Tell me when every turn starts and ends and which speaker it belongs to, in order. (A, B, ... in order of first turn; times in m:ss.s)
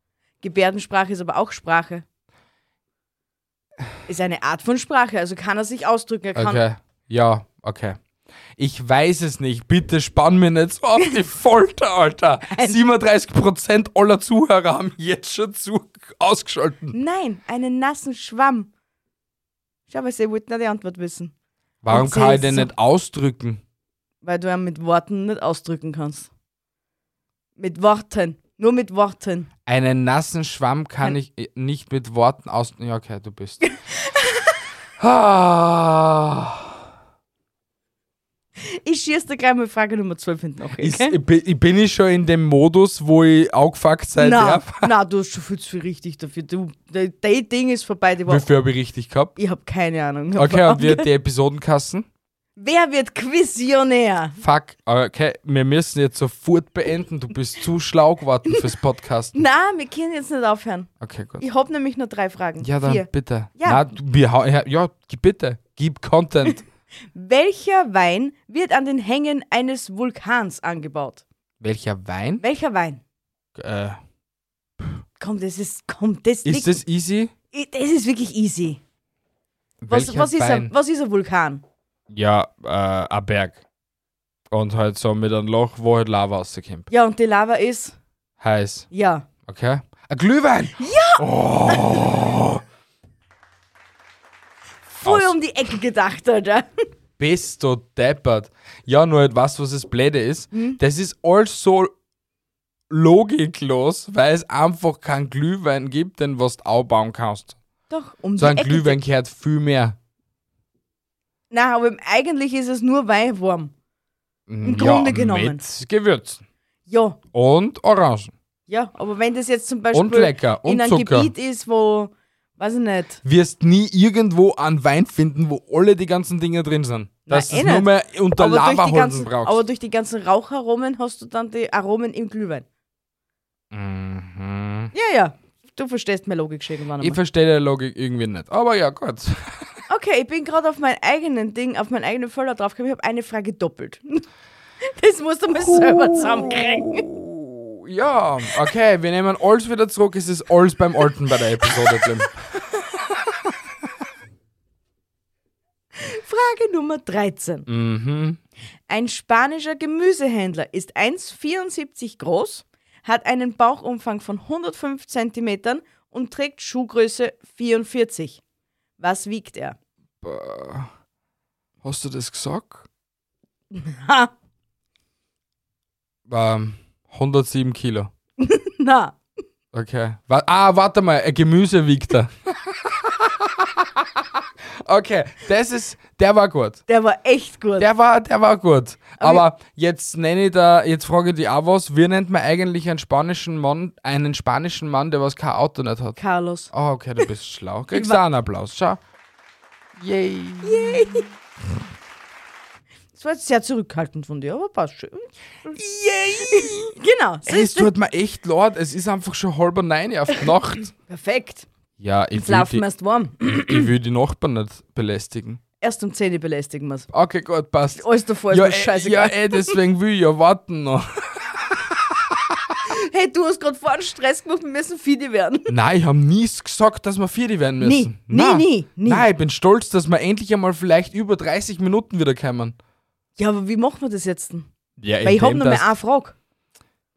0:00.4-0:02.0 A
0:04.1-0:06.6 A
0:06.4-0:08.0 B
0:08.6-0:17.0 B
0:12.5-0:12.8 A
0:16.9-0:18.7 A
0:19.9-0:21.3 A
0:21.8-0:23.6 B
0:21.9-0:22.7 A
0:24.2-0:26.3 A
0:27.6-0:29.5 A
0:29.7-0:33.6 B
0:33.6-0:34.6 A
0:35.0-0:36.8 B
0:38.6-0:41.2 A
0:40.8-0:44.9 B
0:44.2-0:48.5 A
0:48.3-0:49.3 B
0:49.4-0:51.1 A
0:50.4-0:52.1 B
0:52.6-0:54.4 A
0:54.4-0:59.4 B
0:59.3-1:00.9 A
1:01.0-1:01.4 B
1:01.4-1:03.8 A
1:02.6-1:06.6 B
1:07.2-1:11.2 A
1:11.6-1:12.4 B
1:12.4-1:13.0 A
1:13.6-1:14.0 B
1:15.2-1:16.8 A
1:16.4-1:17.3 B
1:17.5-1:18.8 A
1:19.8-1:20.7 B
1:19.9-1:21.6 A
1:22.1-1:23.6 B
1:24.5-1:26.9 B
1:26.9-1:28.0 A
1:28.4-1:28.9 B
1:28.9-1:29.3 A
1:29.5-1:32.6 B
1:30.8-1:32.0 A
1:35.0-1:35.4 B
1:35.0-1:36.7 A
1:37.2-1:41.9 B
1:40.5-1:40.8 A
1:42.9-1:47.6 B
1:47.9-1:49.0 A
1:48.4-1:50.0 B
1:51.5-1:53.7 A
1:54.5-1:56.4 B
1:54.6-1:55.6 A
1:56.9-1:57.2 A
1:57.3-1:58.3 B
1:58.7-2:03.2 A
1:59.9-2:01.3 B
2:03.2-2:09.6 B
2:07.3-2:12.6 A
2:13.7-2:14.9 B
2:14.9-2:17.2 A
2:17.0-2:19.7 B
2:19.9-2:24.2 A
2:24.8-2:27.0 A
2:25.6-2:32.4 B
2:36.0-2:37.7 A
2:37.7-2:38.4 B
2:38.9-2:48.4 A
2:49.0-2:49.8 A
2:50.2-2:50.9 B
2:51.8-2:52.9 B
2:53.7-2:54.3 A
2:56.3-2:58.1 B
2:58.4-2:59.2 A
2:59.7-3:06.8 B
3:06.9-3:07.9 A
3:07.8-3:16.2 B
3:09.2-3:09.5 A
3:16.2-3:16.7 A
3:16.7-3:19.0 B
3:17.9-3:18.2 A
3:20.0-3:21.3 B
3:20.6-3:21.3 A
3:23.2-3:27.9 A
3:25.8-3:26.9 B
3:27.5-3:30.9 B
3:31.1-3:31.7 A
3:32.0-3:32.8 B
3:32.4-3:33.9 A
3:33.4-3:35.6 B
3:35.8-3:37.1 A
3:37.1-3:42.8 B
3:38.0-3:39.8 A
3:42.9-3:45.7 A
3:45.7-3:52.8 B
3:47.8-3:49.3 A
3:53.4-3:54.7 A
3:55.0-3:55.9 B
3:55.2-3:56.4 A